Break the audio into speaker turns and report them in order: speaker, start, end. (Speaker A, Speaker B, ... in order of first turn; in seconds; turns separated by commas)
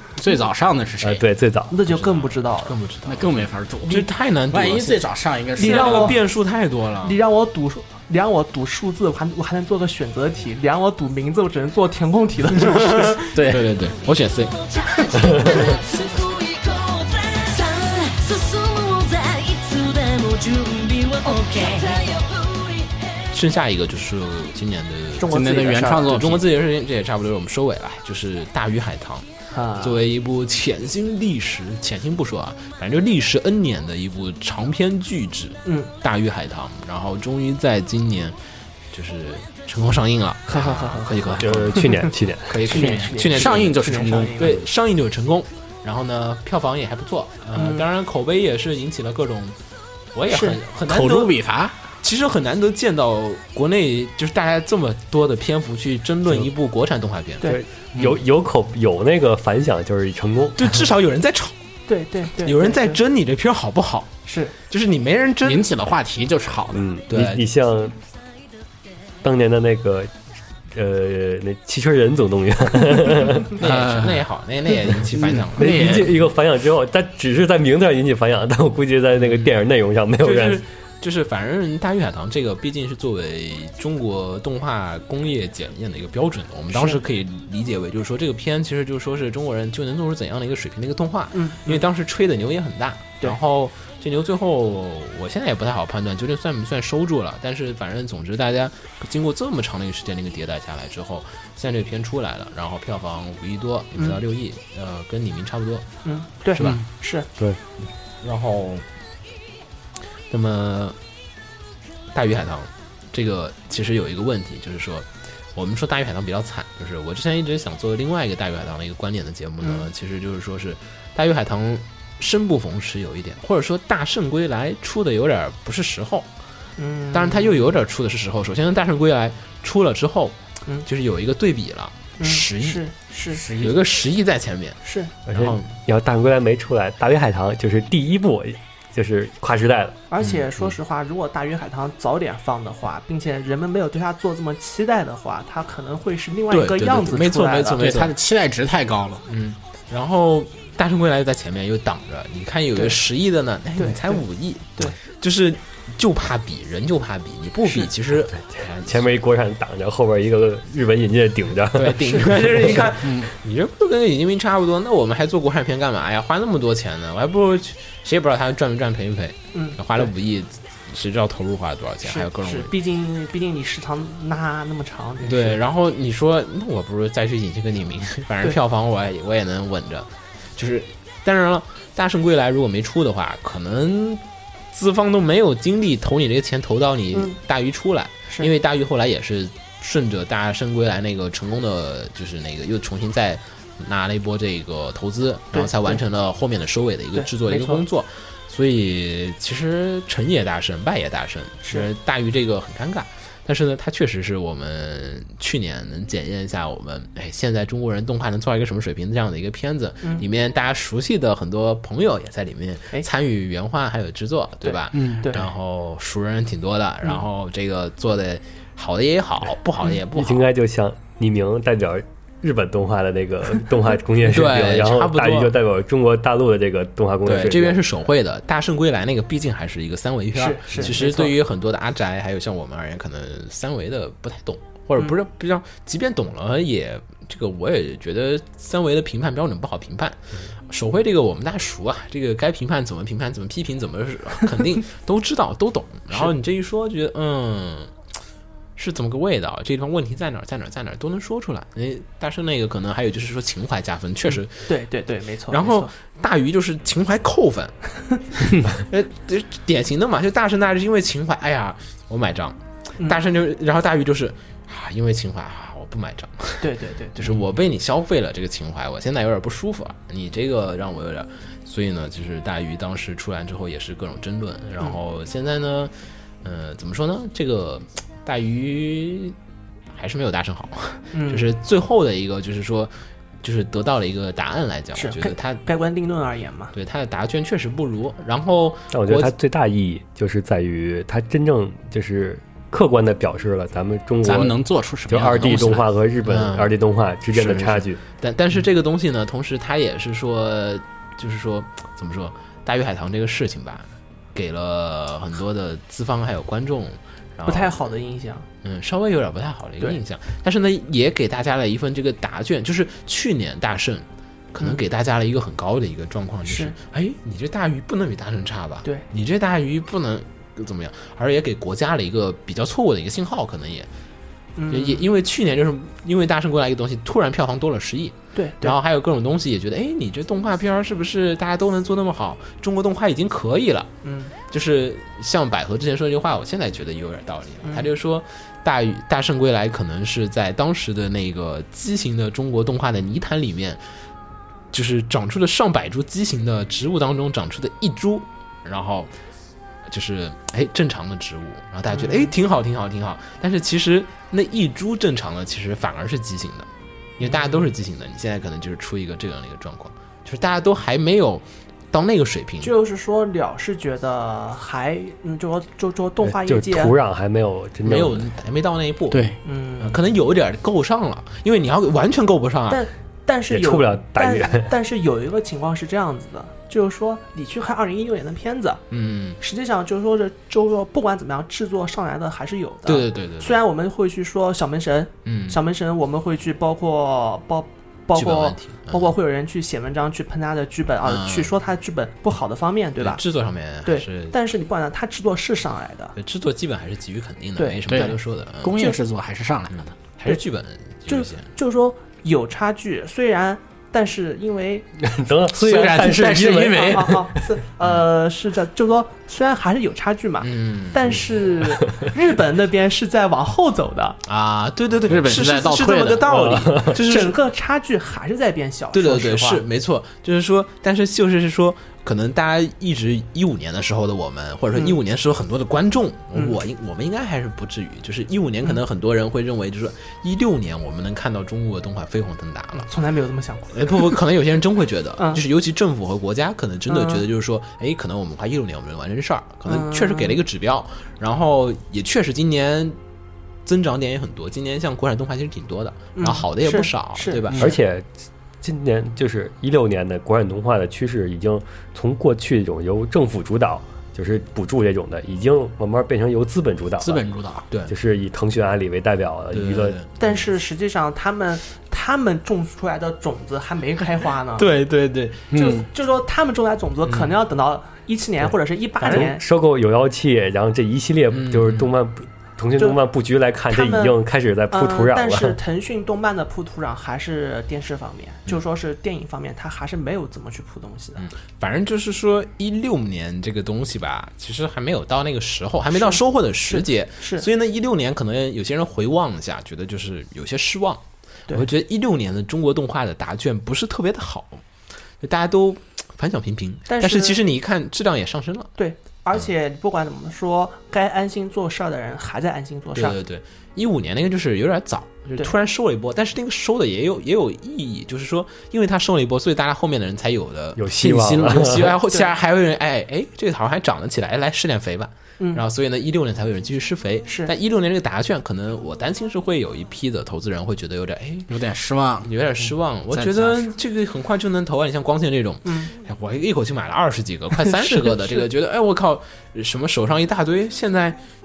Speaker A: 0.2-1.2, Speaker B: 1.0-1.8, Speaker C: 1.7-2.8, Speaker D: 1.9-5.0, Speaker A: 3.1-6.2, Speaker D: 5.6-7.2, Speaker C: 5.6-6.2, Speaker C: 7.0-13.2, Speaker D: 12.6-14.6, Speaker A: 13.3-13.7, Speaker E: 13.9-23.4, Speaker D: 23.3-29.3, Speaker C: 25.1-26.2, Speaker A: 25.3-26.5, Speaker C: 29.5-30.0, Speaker D: 29.8-38.4, Speaker C: 35.6-35.9, Speaker D: 38.9-49.6, Speaker C: 40.5-42.1, Speaker B: 41.4-42.7, Speaker C: 42.6-44.6, Speaker A: 42.7-44.6, Speaker C: 47.5-47.9, Speaker D: 50.1-51.4, Speaker C: 50.3-50.6, Speaker A: 50.9-51.8, Speaker D: 52.0-57.5, Speaker B: 57.4-60.8, Speaker D: 60.6-61.6, Speaker C: 61.9-63.0, Speaker D: 62.4-64.1, Speaker C: 64.3-64.5, Speaker D: 64.7-65.7, Speaker A: 65.4-66.9, Speaker B: 66.7-68.0, Speaker D: 67.1-67.4, Speaker B: 69.2-70.1, Speaker B: 70.7-73.6, Speaker D: 73.6-76.1, Speaker A: 73.6-74.2, Speaker A: 75.2-76.1, Speaker B: 75.5-80.6, Speaker D: 80.2-105.9, Speaker C: 86.7-87.0, Speaker C: 91.3-91.9, Speaker C: 106.0-107.3, Speaker D: 106.5-106.8, Speaker D: 108.2-108.8, Speaker D: 110.3-111.0, Speaker D: 112.1-126.3, Speaker C: 119.6-119.9, Speaker C: 126.8-127.7, Speaker D: 127.1-132.8, Speaker C: 132.2-133.4, Speaker A: 133.3-133.8, Speaker D: 133.6-135.7, Speaker C: 134.8-135.1, Speaker B: 135.3-140.0, Speaker C: 140.1-147.8, Speaker D: 140.2-140.5, Speaker D: 146.5-148.2, Speaker A: 147.8-149.2, Speaker D: 149.3-159.1, Speaker C: 153.8-154.2, Speaker B: 158.5-162.9, Speaker D: 161.7-172.7, Speaker A: 163.0-163.3, Speaker C: 169.5-170.1, Speaker C: 172.0-175.6, Speaker D: 175.2-220.4, Speaker C: 195.5-196.0, Speaker C: 197.2-197.8, Speaker C: 201.6-201.9, Speaker C: 214.6-215.5, Speaker A: 214.9-215.3, Speaker B: 220.1-227.8, Speaker D: 224.2-225.5, Speaker D: 227.2-247.9, Speaker C: 230.3-231.4, Speaker D: 248.8-254.7, Speaker C: 254.3-255.9, Speaker D: 255.5-257.8, Speaker D: 258.6-279.4, Speaker C: 266.6-267.4, Speaker D: 279.9-285.6, Speaker C: 281.1-281.5, Speaker C: 284.9-286.7, Speaker D: 286.7-289.3, Speaker B: 288.9-294.6, Speaker A: 294.2-295.9, Speaker B: 295.1-298.0, Speaker D: 296.2-296.8, Speaker D: 297.3-307.9, Speaker C: 307.4-308.5, Speaker D: 308.6-323.9, Speaker C: 316.5-316.8, Speaker C: 324.6-325.1, Speaker D: 324.7-333.9, Speaker C: 328.3-328.8, Speaker C: 334.0-334.3, Speaker D: 334.5-343.8, Speaker C: 337.6-337.9, Speaker D: 344.7-349.1, Speaker D: 349.9-362.7, Speaker C: 351.9-352.3, Speaker C: 357.2-357.7, Speaker C: 362.6-366.9, Speaker B: 366.2-368.3, Speaker D: 367.9-372.9, Speaker A: 369.1-369.4, Speaker C: 369.4-370.0, Speaker C: 372.7-378.8, Speaker B: 373.5-374.7, Speaker D: 378.9-379.4, Speaker C: 379.4-393.2, Speaker D: 382.9-383.6, Speaker D: 385.2-385.6, Speaker D: 388.1-389.1, Speaker D: 391.0-391.5, Speaker D: 393.0-394.4, Speaker C: 393.9-396.1, Speaker D: 396.2-399.0, Speaker C: 397.6-397.8, Speaker A: 397.9-399.9, Speaker D: 399.7-401.5, Speaker C: 401.1-404.9, Speaker B: 405.0-407.3, Speaker A: 405.5-407.2, Speaker C: 406.7-414.2, Speaker D: 410.4-411.2, Speaker D: 414.2-417.4, Speaker A: 415.1-416.6, Speaker B: 416.3-417.0, Speaker C: 416.9-419.6, Speaker D: 418.9-432.9, Speaker C: 432.8-434.2, Speaker D: 433.7-443.0, Speaker C: 435.2-435.4, Speaker C: 436.9-437.2, Speaker C: 439.7-440.4, Speaker D: 443.6-447.7, Speaker C: 446.2-447.4, Speaker B: 447.5-448.1, Speaker B: 448.6-457.2, Speaker A: 457.0-457.7, Speaker B: 457.9-460.0, Speaker D: 459.5-460.4, Speaker C: 460.2-464.7, Speaker D: 464.6-465.5, Speaker A: 465.5-465.9, Speaker C: 465.5-469.4, Speaker D: 467.1-467.4, Speaker B: 469.0-475.6, Speaker D: 471.3-471.9, Speaker C: 473.7-474.2, Speaker C: 474.7-481.3, Speaker D: 481.2-494.6, Speaker C: 485.9-487.5, Speaker D: 495.2-498.7, Speaker C: 496.9-497.4, Speaker C: 498.8-503.2, Speaker D: 502.9-521.5, Speaker B: 510.8-511.9, Speaker A: 510.9-511.9, Speaker C: 517.3-517.5, Speaker A: 521.5-523.7, Speaker D: 522.2-531.2, Speaker C: 525.6-525.9, Speaker C: 527.6-528.5